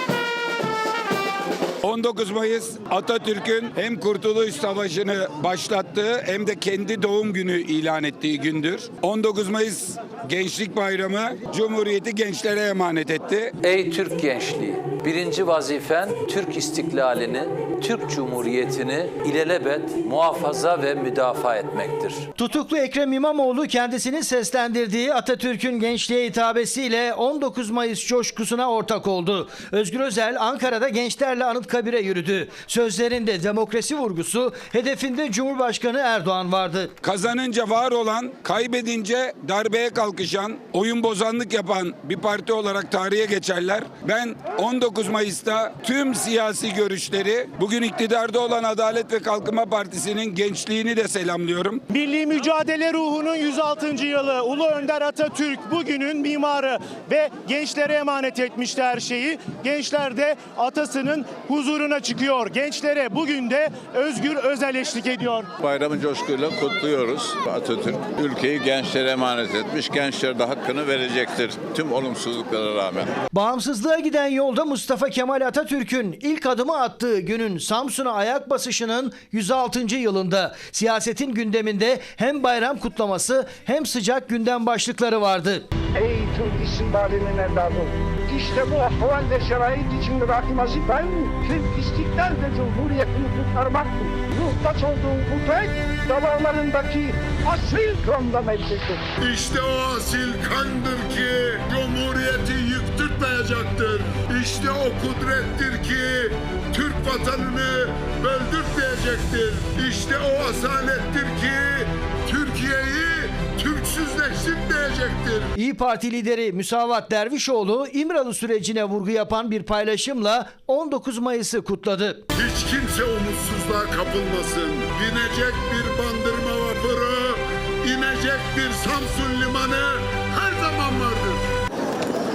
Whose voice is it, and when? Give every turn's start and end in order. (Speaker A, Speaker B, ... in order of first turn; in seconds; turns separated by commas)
Speaker A: 1.8-13.5, Speaker B: 13.6-22.2, Speaker C: 22.4-36.9, Speaker A: 37.0-51.8, Speaker D: 51.9-65.5, Speaker E: 65.6-73.1, Speaker C: 73.3-85.6, Speaker F: 85.9-99.1, Speaker G: 99.2-115.5, Speaker C: 115.5-122.3, Speaker G: 122.3-131.4